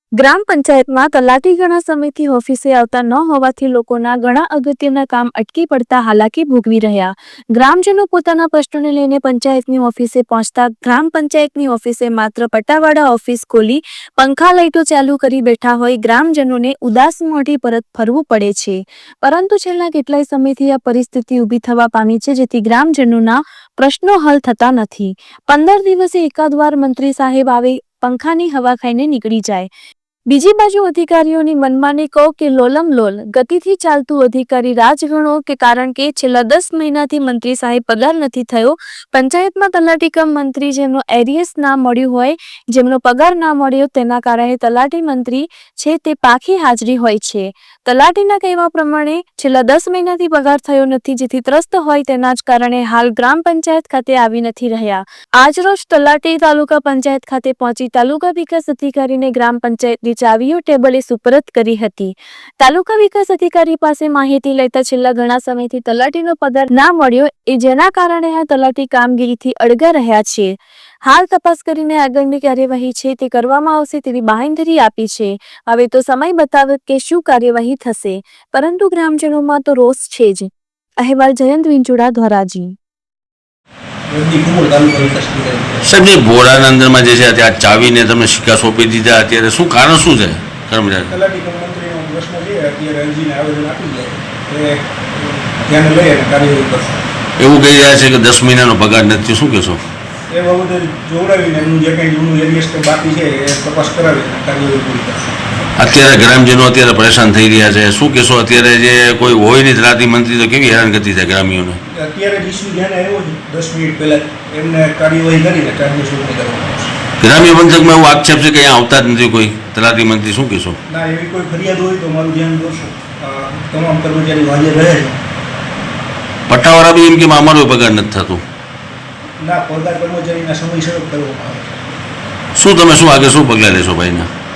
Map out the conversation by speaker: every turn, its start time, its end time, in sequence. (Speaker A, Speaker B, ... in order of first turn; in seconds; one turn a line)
Speaker A: 0.2-29.7
Speaker A: 30.3-70.5
Speaker A: 71.0-82.7
Speaker B: 84.1-85.9
Speaker C: 85.8-91.1
Speaker B: 91.1-97.0
Speaker C: 97.4-99.8
Speaker B: 100.3-105.3
Speaker C: 105.8-111.8
Speaker B: 111.9-116.9
Speaker C: 117.2-120.8
Speaker B: 120.9-125.2
Speaker C: 126.5-128.4
Speaker B: 129.4-131.8
Speaker C: 132.5-134.3